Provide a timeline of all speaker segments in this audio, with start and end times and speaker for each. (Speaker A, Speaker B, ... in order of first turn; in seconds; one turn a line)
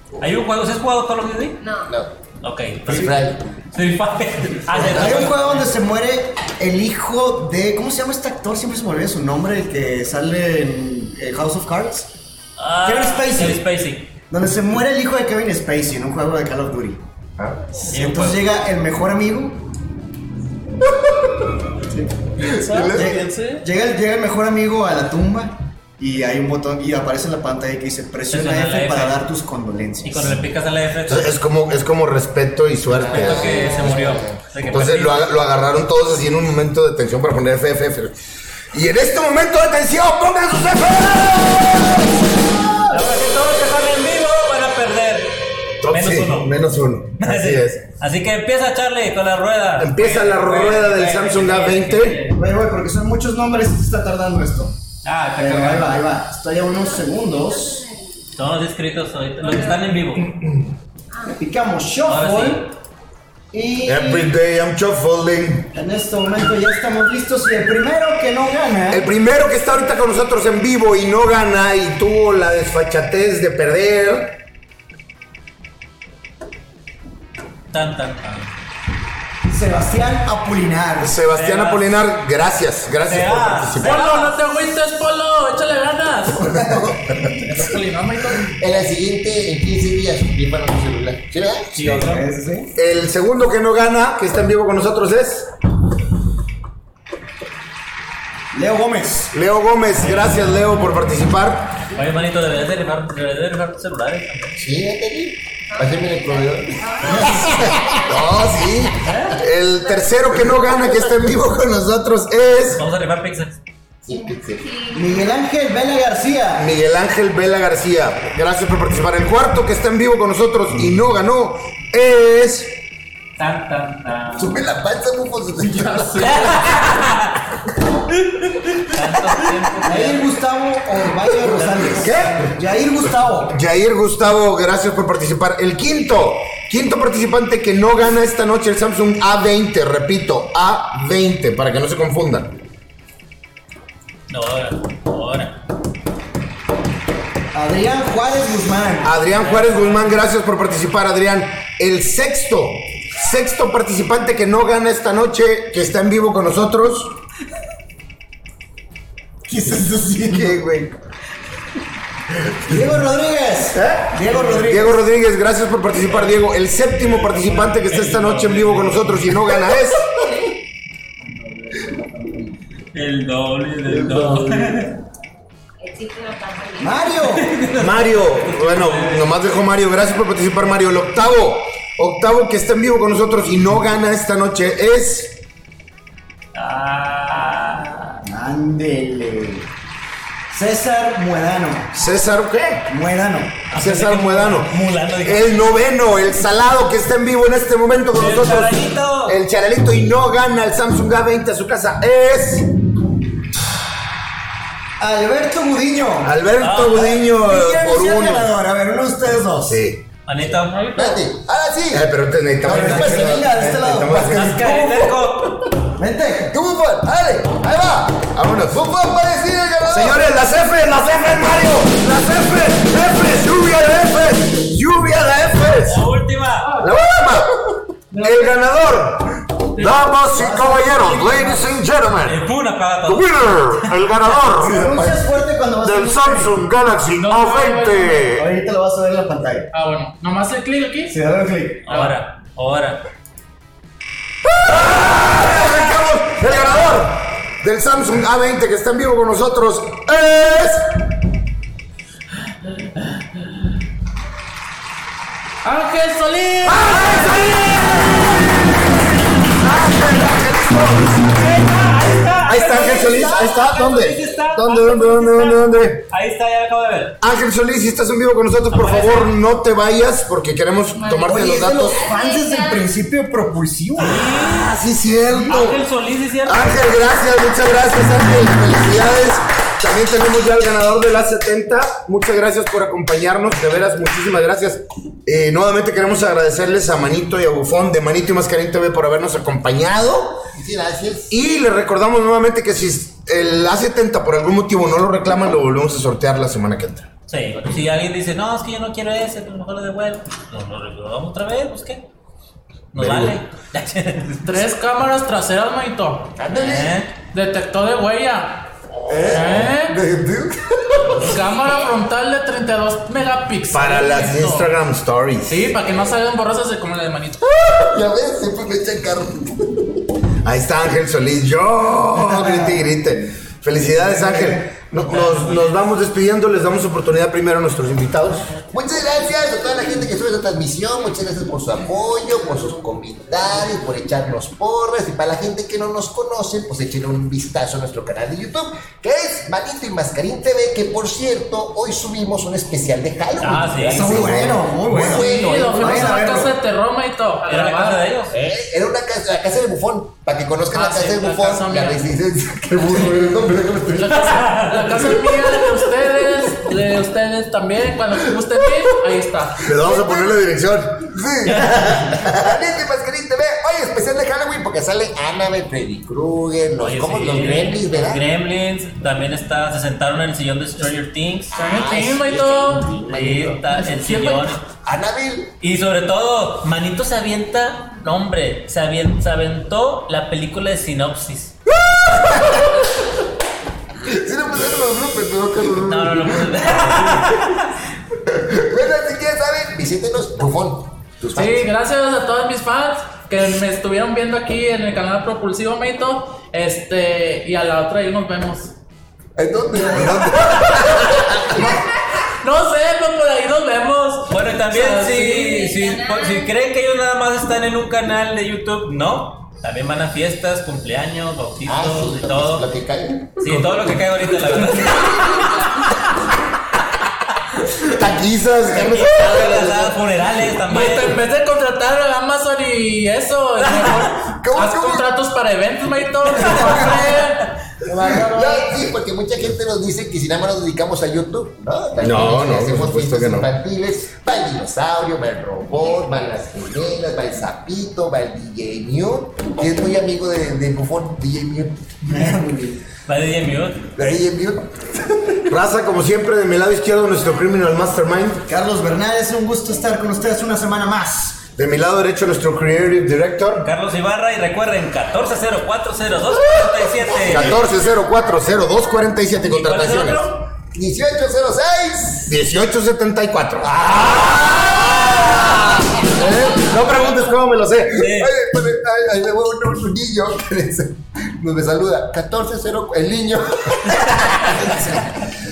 Speaker A: 0.2-1.6
Speaker B: 1.6-1.9
Speaker C: 1.9-2.1
Speaker A: 2.4-5.7
Speaker C: 2.9-3.5
Speaker D: 2.9-3.2
Speaker D: 4.7-12.1
Speaker A: 12.6-14.1
Speaker D: 12.8-13.6
Speaker D: 14.3-17.0
Speaker D: 17.8-19.7
Speaker A: 17.9-18.5
Speaker E: 22.4-23.6
Speaker F: 22.5-23.2
Speaker D: 22.9-30.4
Speaker A: 28.3-29.2
Speaker A: 30.0-31.3
Speaker F: 31.1-33.9
Speaker C: 32.9-34.4
Speaker A: 33.0-35.4
Speaker F: 34.7-38.1
Speaker F: 38.7-42.3
Speaker A: 42.9-46.6
Speaker F: 45.8-47.8
Speaker A: 47.2-52.4
Speaker F: 49.8-52.3
Speaker D: 52.3-54.8
Speaker A: 55.0-56.1
Speaker D: 55.4-57.9
Speaker B: 56.7-58.0
Speaker A: 58.4-60.3
Speaker B: 59.4-59.8
Speaker D: 61.3-62.7
Speaker A: 62.1-62.7
Speaker D: 63.5-64.4
Speaker F: 63.9-65.7
Speaker D: 65.7-69.1
Speaker F: 68.9-74.4
Speaker A: 77.7-78.5
Speaker D: 79.5-81.1
Speaker F: 81.0-84.0
Speaker A: 81.3-81.9
Speaker A: 83.0-84.4
Speaker E: 83.8-86.5
Speaker D: 86.5-87.0
Speaker F: 86.6-86.9
Speaker E: 87.4-88.5
Speaker C: 88.5-91.9
Speaker A: 91.7-92.3
Speaker D: 91.8-92.7
Speaker F: 92.8-95.5
Speaker D: 98.5-99.3
Speaker F: 99.3-101.8
Speaker A: 101.9-104.6
Speaker C: 104.6-109.4
Speaker B: 105.7-108.4
Speaker A: 107.0-107.3
Speaker F: 107.7-108.9
Speaker A: 109.0-109.4
Speaker F: 109.4-112.8
Speaker C: 110.4-111.3
Speaker A: 112.8-113.6
Speaker C: 114.0-114.7
Speaker B: 114.1-115.3
Speaker D: 114.9-116.7
Speaker F: 116.5-122.8
Speaker A: 123.4-124.6
Speaker C: 124.3-126.8
Speaker A: 125.8-127.5
Speaker A: 128.1-130.3
Speaker D: 129.8-133.6
Speaker A: 131.3-132.1
Speaker F: 132.0-132.4
Speaker F: 133.5-142.6
Speaker A: 144.3-145.6
Speaker D: 147.5-149.2
Speaker F: 149.0-157.2
Speaker A: 149.3-150.1
Speaker D: 159.4-160.6
Speaker F: 160.3-160.9
Speaker D: 162.7-165.1
Speaker F: 163.7-170.3
Speaker A: 166.0-166.4
Speaker A: 167.0-169.6
Speaker D: 171.7-172.4
Speaker A: 172.9-175.0
Speaker B: 175.8-177.1
Speaker D: 176.8-177.5
Speaker A: 177.3-179.4
Speaker F: 177.8-185.4
Speaker A: 186.5-188.2
Speaker D: 188.2-189.7
Speaker D: 190.5-191.9
Speaker F: 191.9-192.9
Speaker D: 192.9-193.7
Speaker A: 193.7-195.7
Speaker F: 193.8-202.7
Speaker A: 198.1-199.4
Speaker D: 205.0-206.3
Speaker F: 206.2-208.5
Speaker A: 206.6-207.1
Speaker D: 206.9-209.8
Speaker F: 209.7-210.1
Speaker A: 210.3-210.9
Speaker E: 210.7-211.2
Speaker C: 210.9-213.5
Speaker F: 211.9-215.2
Speaker D: 212.6-214.6
Speaker A: 214.1-215.7
Speaker D: 215.9-216.6
Speaker C: 216.5-220.4
Speaker F: 218.3-218.8
Speaker F: 219.9-226.0
Speaker A: 225.8-226.7
Speaker F: 226.8-232.4
Speaker E: 228.1-228.6
Speaker D: 230.3-231.8
Speaker A: 232.3-233.9
Speaker F: 233.1-235.1
Speaker D: 234.6-236.7
Speaker C: 234.7-235.0
Speaker F: 235.8-238.5
Speaker E: 237.2-238.3
Speaker D: 238.3-239.7
Speaker E: 239.7-241.2
Speaker D: 241.1-241.8
Speaker A: 241.9-243.0
Speaker E: 241.9-242.2
Speaker F: 244.5-250.9
Speaker E: 255.6-257.3
Speaker F: 256.6-258.8
Speaker F: 259.4-261.5
Speaker A: 261.3-267.2
Speaker F: 262.4-266.1
Speaker D: 262.8-263.2
Speaker F: 267.2-272.0
Speaker A: 268.7-269.3
Speaker B: 270.9-272.9
Speaker D: 271.2-274.4
Speaker A: 274.0-274.8
Speaker F: 274.4-275.8
Speaker A: 275.4-276.9
Speaker F: 276.4-290.4
Speaker C: 290.6-291.4
Speaker F: 291.3-297.1
Speaker A: 297.3-302.1
Speaker A: 302.9-304.7
Speaker F: 303.0-303.4
Speaker E: 304.4-306.3
Speaker C: 306.4-306.9
Speaker A: 306.5-307.1
Speaker E: 307.3-308.7
Speaker C: 309.1-311.4
Speaker E: 309.3-310.0
Speaker E: 311.2-314.7
Speaker B: 311.6-311.9
Speaker F: 313.7-315.7
Speaker E: 315.5-317.5
Speaker C: 317.5-319.9
Speaker F: 320.4-328.5
Speaker D: 322.1-322.8
Speaker D: 323.8-324.7
Speaker A: 325.0-325.8
Speaker C: 328.7-346.5
Speaker A: 343.4-344.2
Speaker D: 343.8-346.5
Speaker F: 344.1-344.6
Speaker E: 345.1-348.1
Speaker A: 347.4-348.3
Speaker C: 348.3-355.2
Speaker E: 350.7-352.0
Speaker E: 353.9-360.3
Speaker A: 354.3-354.8
Speaker F: 359.6-361.1
Speaker C: 361.1-368.2
Speaker A: 361.4-361.9
Speaker F: 361.8-362.3
Speaker A: 366.8-371.5
Speaker C: 371.5-373.6
Speaker E: 371.5-374.6
Speaker A: 373.1-374.7
Speaker C: 374.8-375.5
Speaker A: 375.6-381.6
Speaker C: 381.8-382.9
Speaker C: 384.0-387.4
Speaker A: 385.8-387.7
Speaker C: 388.3-391.7
Speaker E: 391.4-398.7
Speaker C: 399.4-401.7
Speaker F: 399.9-400.9
Speaker E: 401.0-405.7
Speaker A: 404.3-412.7
Speaker B: 405.4-406.5
Speaker C: 411.7-413.9
Speaker A: 413.4-416.0
Speaker C: 414.4-415.4
Speaker F: 417.9-419.9
Speaker A: 418.7-421.2
Speaker C: 419.0-419.9
Speaker E: 420.7-427.5
Speaker A: 423.6-424.1
Speaker C: 423.8-425.1
Speaker C: 426.4-426.9
Speaker A: 426.4-426.8
Speaker C: 427.9-442.2
Speaker D: 428.1-428.6
Speaker F: 432.0-433.5
Speaker D: 442.0-442.8
Speaker A: 443.1-443.8
Speaker C: 443.9-445.4
Speaker F: 445.5-448.4
Speaker D: 448.5-451.4
Speaker F: 451.6-453.7
Speaker A: 453.6-457.6
Speaker F: 457.3-460.3
Speaker A: 459.4-460.4
Speaker C: 460.7-462.3
Speaker F: 462.3-463.8
Speaker C: 463.7-466.3
Speaker A: 465.1-465.5
Speaker F: 466.1-468.1
Speaker A: 467.9-468.3
Speaker C: 467.9-475.1